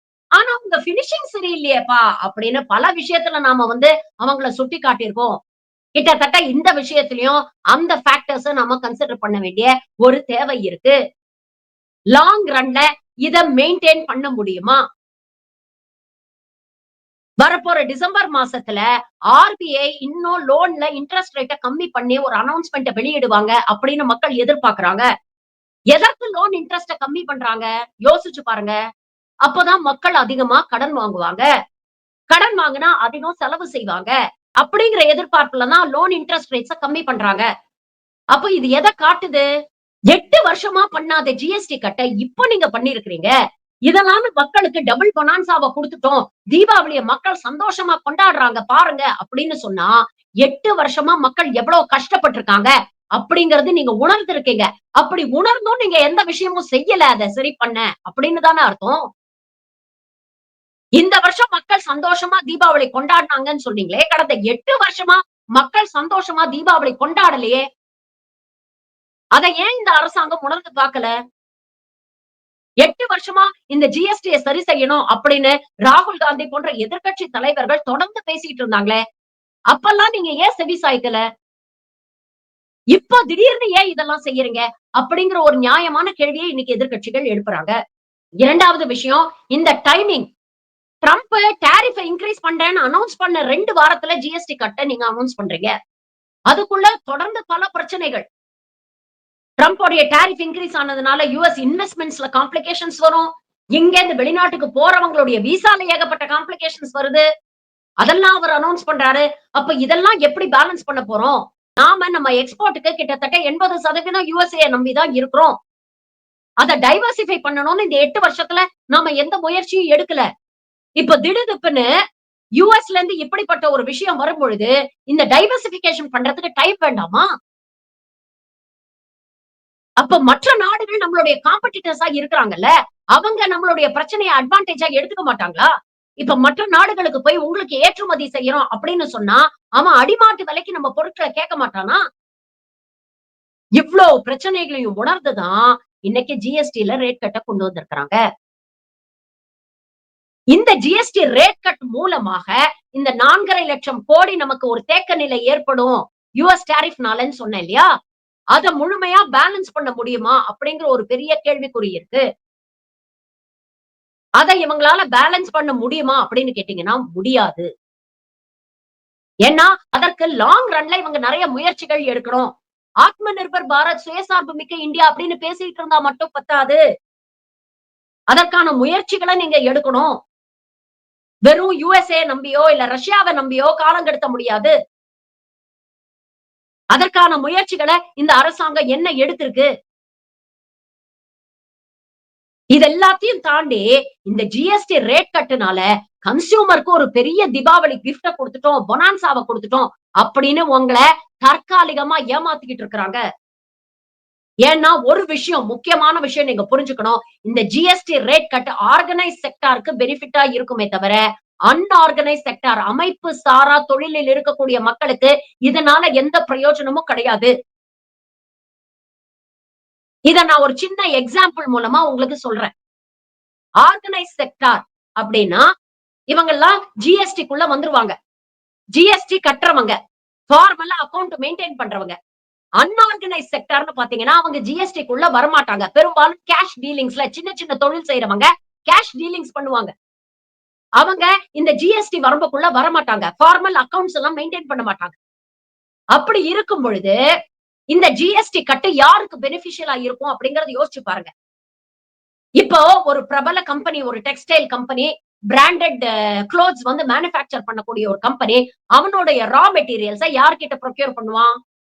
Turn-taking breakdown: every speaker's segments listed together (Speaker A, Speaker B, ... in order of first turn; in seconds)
Speaker A: 0.4-5.4, 6.0-10.9, 12.1-14.8, 17.4-25.0, 25.9-28.7, 29.4-31.4, 32.3-37.5, 38.3-39.5, 40.1-43.3, 43.9-59.0, 61.0-67.6, 69.3-71.1, 72.8-79.0, 79.7-81.2, 82.9-87.7, 88.4-90.3, 91.0-95.7, 96.5-98.2, 99.6-107.2, 108.0-115.5, 116.6-120.2, 121.0-121.9, 122.6-127.3, 130.0-142.0, 143.8-148.2, 150.5-157.9, 158.5-162.2, 164.4-167.7, 169.4-172.5, 173.0-176.8, 178.3-180.2, 181.5-184.7, 186.9-189.7, 192.7-203.2, 204.7-217.5, 220.3-222.7, 223.8-225.7, 226.3-228.1, 228.9-229.9, 230.5-232.1, 232.8-239.9, 241.0-245.2, 246.1-247.2, 247.9-251.3, 252.6-261.5